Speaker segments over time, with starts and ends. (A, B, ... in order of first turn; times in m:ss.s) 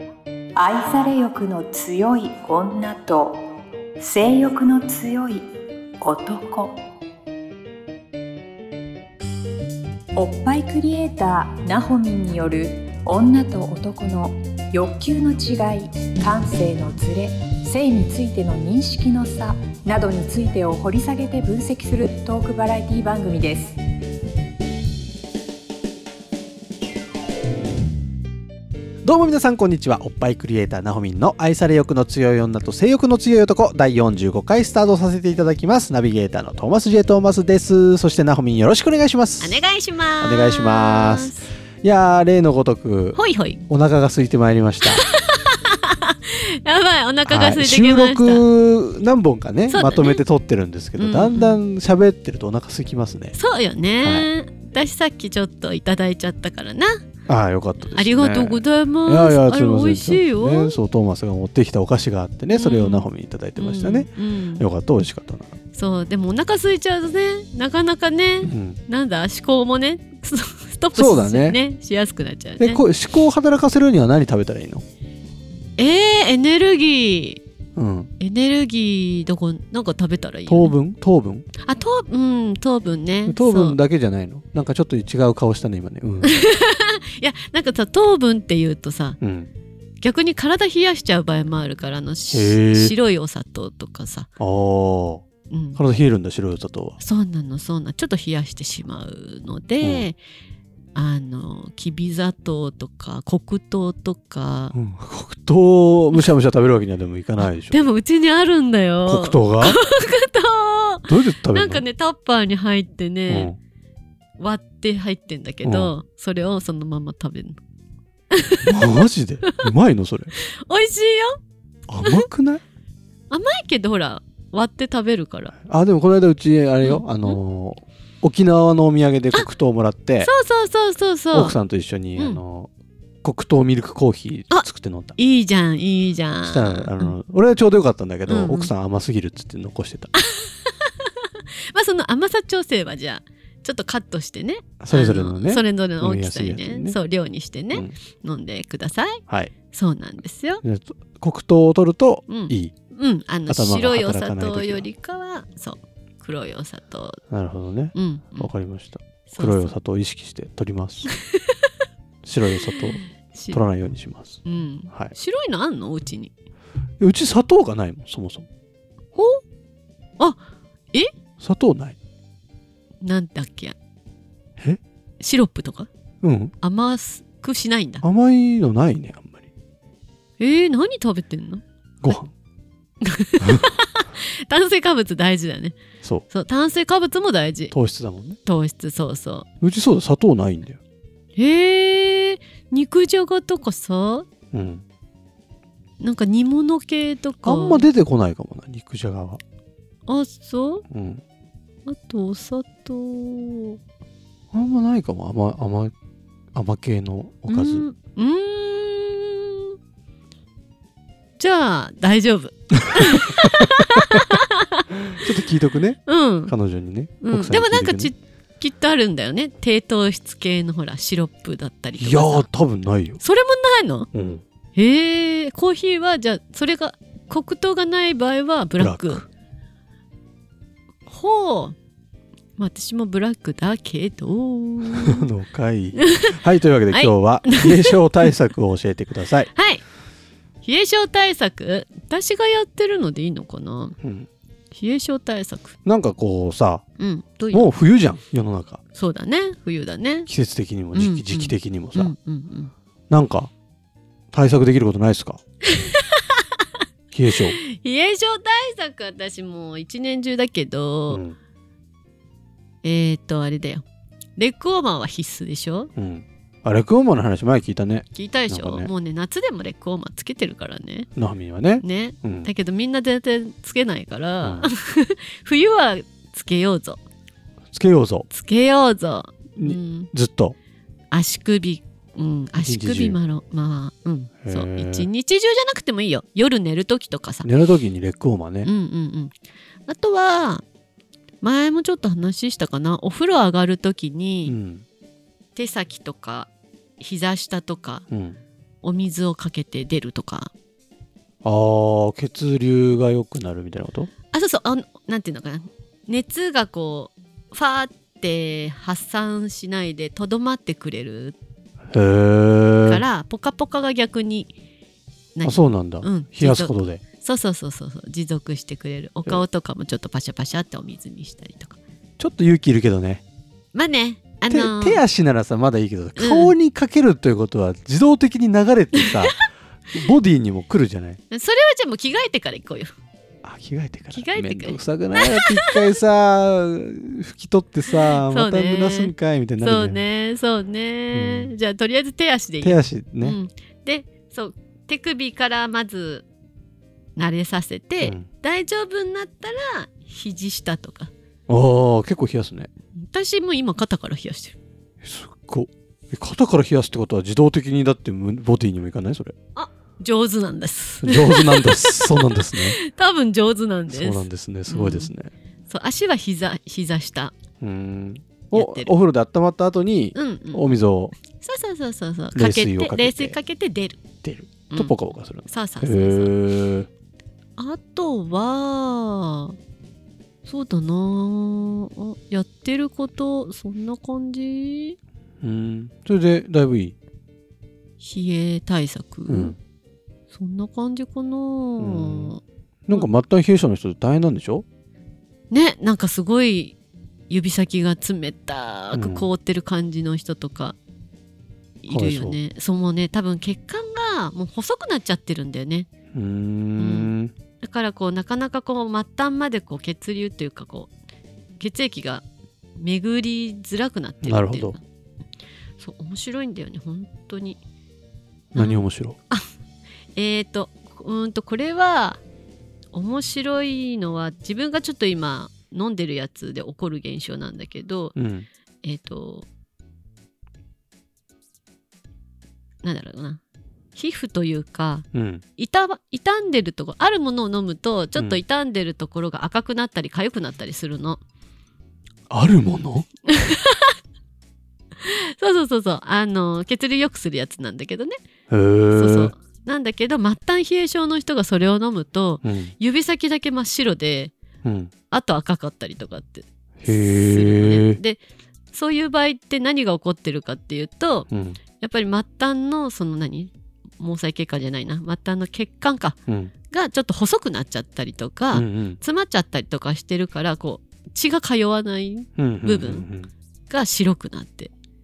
0:00.6-0:03.4 A
0:04.0-0:05.5 A
0:06.0-0:06.8 A
0:10.2-0:23.8 A
0:29.0-0:39.6 B
0:39.4-0:41.5 C
0:40.2-0:45.0 B
0:43.1-0:43.6 C
0:44.9-0:48.4 C
0:47.3-0:53.4 B
0:49.7-0:50.2 C
0:51.0-0:51.6 C
0:53.4-0:57.0 C
0:54.0-0:54.3 B
0:57.3-1:05.5 B
0:57.8-1:00.8 C
1:02.5-1:04.6 C
1:05.7-1:12.8 C
1:08.4-1:08.8 B
1:10.9-1:11.6 B
1:12.6-1:14.8 B
1:15.8-1:17.4 C
1:17.8-1:18.1 B
1:18.2-1:20.7 C
1:20.5-1:21.5 B
1:21.6-1:23.8 C
1:23.3-1:26.3 B
1:26.2-1:29.2 C
1:29.2-1:29.5 B
1:30.0-1:34.3 C
1:32.3-1:33.0 B
1:34.4-1:35.2 B
1:35.5-1:35.8 C
1:35.8-1:37.0 B
1:37.0-1:40.2 C
1:39.8-1:40.1 B
1:41.0-1:44.7 C
1:44.7-1:47.8 B
1:47.4-1:53.5 C
1:49.1-1:49.8 B
1:51.1-1:51.8 B
1:53.3-1:53.6 B
1:54.4-1:57.6 C
1:55.6-1:55.9 B
1:58.3-1:59.6 C
1:58.6-2:00.3 B
2:00.4-2:01.4 C
2:01.9-2:02.6 B
2:03.3-2:05.5 C
2:05.6-2:10.3 B
2:06.8-2:07.4 C
2:10.2-2:11.6 C
2:11.3-2:12.7 B
2:13.2-2:15.2 B
2:15.2-2:17.2 C
2:16.4-2:20.1 B
2:18.3-2:18.7 C
2:20.2-2:29.2 C
2:24.8-2:27.0 B
2:29.7-2:30.6 C
2:30.6-2:32.7 B
2:32.3-2:37.2 C
2:33.5-2:34.9 B
2:37.3-2:41.1 B
2:37.9-2:38.5 C
2:39.3-2:39.7 C
2:41.1-2:41.6 C
2:42.2-2:43.0 B
2:42.7-2:43.6 C
2:43.5-2:45.1 B
2:44.4-2:46.3 C
2:47.0-2:48.4 B
2:49.2-2:49.4 C
2:51.4-2:52.0 B
2:53.0-2:53.8 C
2:55.2-2:55.9 C
2:56.2-2:56.5 B
2:56.6-2:58.0 C
2:58.0-2:59.5 B
3:00.4-3:02.2 C
3:02.0-3:02.3 B
3:03.0-3:05.8 C
3:06.3-3:07.7 C
3:07.7-3:08.4 B
3:08.4-3:09.5 C
3:09.6-3:10.8 B
3:11.4-3:14.3 C
3:14.5-3:14.8 B
3:16.0-3:17.9 C
3:17.4-3:19.4 B
3:20.1-3:20.8 C
3:20.9-3:21.2 B
3:21.9-3:23.8 C
3:24.5-3:25.9 B
3:26.6-3:27.8 B
3:27.5-3:29.7 C
3:31.4-3:35.2 C
3:35.1-3:38.1 B
3:36.1-3:36.5 C
3:37.2-3:42.5 C
3:42.0-3:43.2 B
3:43.2-3:44.1 C
3:44.1-3:44.4 B
3:44.8-3:49.2 C
3:48.8-3:49.3 B
3:51.1-3:51.8 C
3:52.6-3:55.3 C
3:54.9-3:59.5 B
3:56.0-3:56.3 C
3:56.9-3:58.3 C
3:59.5-3:59.8 C
4:00.6-4:04.0 C
4:04.0-4:04.3 B
4:04.7-4:05.8 C
4:05.8-4:06.8 B
4:07.0-4:07.7 C
4:07.5-4:08.8 B
4:09.0-4:10.3 C
4:10.3-4:12.1 B
4:10.9-4:12.7 C
4:13.1-4:13.5 B
4:14.3-4:15.4 B
4:15.7-4:16.5 C
4:17.1-4:17.6 B
4:17.5-4:21.2 C
4:21.1-4:21.4 B
4:22.8-4:23.8 C
4:24.4-4:25.9 C
4:26.0-4:28.9 B
4:28.1-4:31.1 C
4:31.2-4:32.5 B
4:31.8-4:37.0 C
4:34.4-4:34.7 B
4:37.7-4:38.3 B
4:38.3-4:40.1 C
4:39.6-4:40.6 B
4:41.1-4:47.5 C
4:42.6-4:43.2 B
4:44.4-4:45.1 B
4:47.4-4:48.7 B
4:48.6-4:49.3 C
4:49.9-4:50.6 C
4:51.4-4:54.6 C
4:54.5-4:54.8 B
4:55.6-4:58.0 C
4:58.1-4:58.4 B
4:58.8-5:00.5 C
5:01.4-5:04.1 B
5:04.3-5:11.4 C
5:11.9-5:13.0 B
5:12.8-5:14.5 C
5:15.4-5:21.8 C
5:15.4-5:17.0 B
5:22.2-5:23.2 B
5:23.7-5:25.0 C
5:24.5-5:29.4 B
5:26.2-5:26.5 C
5:29.9-5:31.2 B
5:31.3-5:32.9 C
5:33.4-5:40.0 B
5:34.1-5:35.8 C
5:38.2-5:46.3 C
5:41.1-5:41.5 B
5:42.6-5:43.4 B
5:47.2-5:51.1 C
5:48.0-5:48.3 B
5:51.5-5:52.7 B
5:53.0-5:54.6 C
5:55.0-5:59.3 B
5:59.6-6:05.1 C
6:01.0-6:02.8 B
6:03.9-6:05.3 B
6:05.7-6:07.4 C
6:07.6-6:11.2 B
6:08.5-6:08.9 C
6:10.2-6:10.7 C
6:11.3-6:14.0 C
6:12.3-6:13.4 B
6:14.2-6:16.9 B
6:14.7-6:15.0 C
6:15.5-6:16.3 C
6:17.6-6:19.6 C
6:20.4-6:25.0 C
6:25.4-6:26.9 B
6:28.0-6:29.6 C
6:29.3-6:29.6 B
6:30.3-6:33.1 C
6:31.8-6:32.3 B
6:32.9-6:34.6 B
6:35.5-6:36.8 C
6:37.3-6:40.8 C
6:38.9-6:39.3 B
6:41.8-6:45.9 C
6:41.9-6:42.4 B
6:46.1-6:47.3 B
6:46.8-6:50.9 C
6:51.6-6:52.2 C
6:52.8-6:54.8 C
6:54.2-6:54.8 B
6:55.8-6:57.6 C
6:58.5-6:59.2 B
6:58.6-6:59.4 C
7:00.2-7:02.2 C
7:02.9-7:08.1 C
7:08.2-7:08.5 B
7:08.8-7:09.5 C
7:12.8-7:13.4 C
7:14.0-7:21.2 C
7:15.1-7:15.4 B
7:18.2-7:18.4 B
7:22.3-7:23.1 B
7:23.3-7:23.9 C
7:25.0-7:28.2 C
7:28.5-7:29.3 B
7:28.9-7:34.3 C
7:32.4-7:32.7 B
7:34.6-7:34.9 B
7:35.1-7:41.3 C
7:36.8-7:38.0 B
7:41.3-7:41.6 B
7:41.8-7:46.2 C
7:46.3-7:46.5 B
7:46.7-7:53.0 C
7:48.5-7:49.0 B
7:52.4-7:53.3 B
7:53.7-7:54.7 C